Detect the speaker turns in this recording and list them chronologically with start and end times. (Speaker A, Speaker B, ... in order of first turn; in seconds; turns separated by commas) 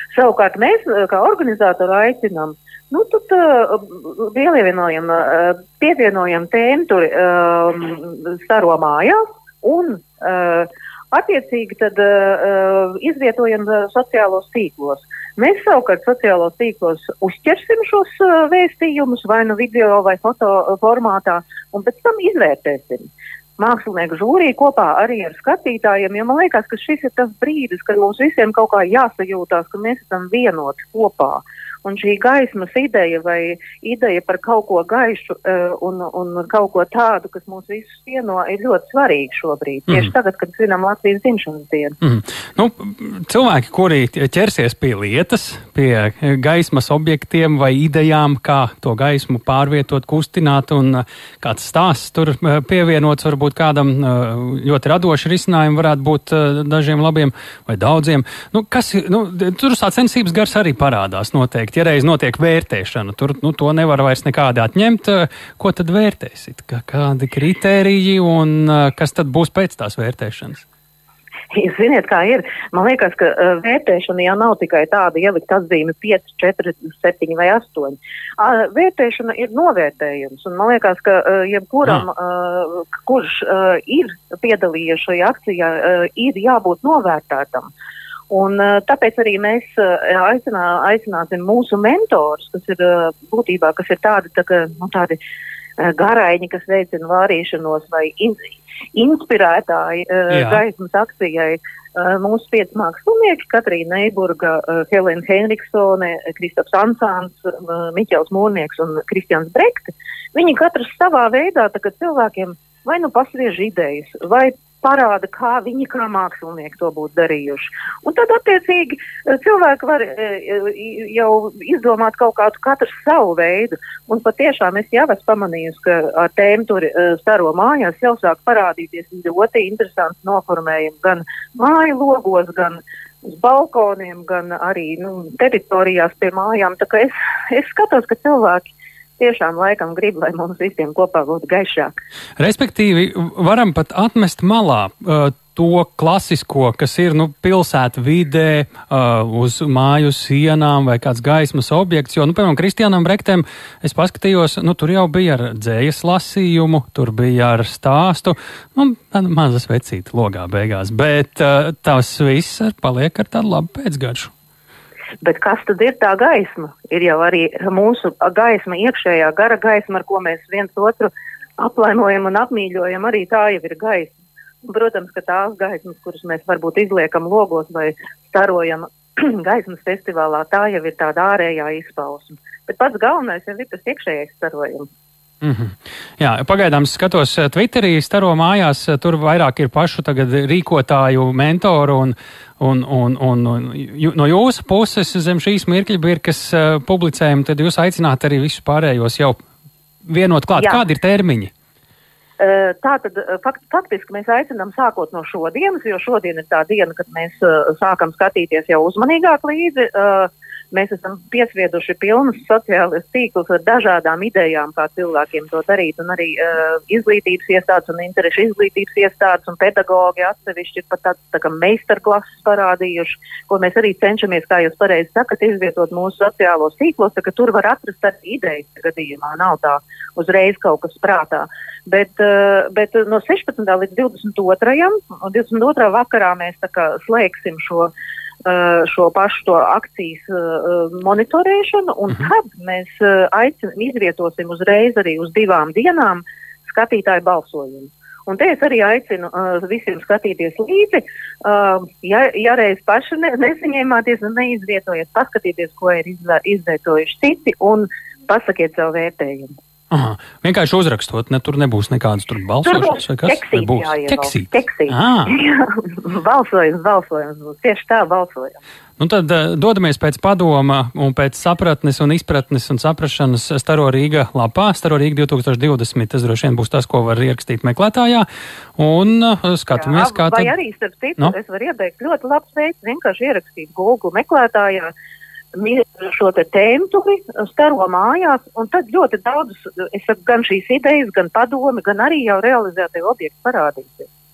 Speaker A: 0.1-42.0, Speaker B: 42.0-70.7, Speaker A: 71.5-87.7, Speaker A: 88.3-95.2, Speaker A: 95.8-141.9, Speaker B: 100.3-100.6, Speaker B: 142.4-164.3, Speaker A: 165.2-184.9, Speaker B: 185.4-199.4, Speaker B: 200.1-201.5, Speaker A: 200.6-200.8, Speaker A: 202.4-237.9, Speaker A: 238.4-259.5, Speaker B: 259.9-265.3, Speaker A: 262.6-268.6, Speaker B: 269.0-280.5, Speaker A: 279.7-284.9, Speaker A: 285.6-294.1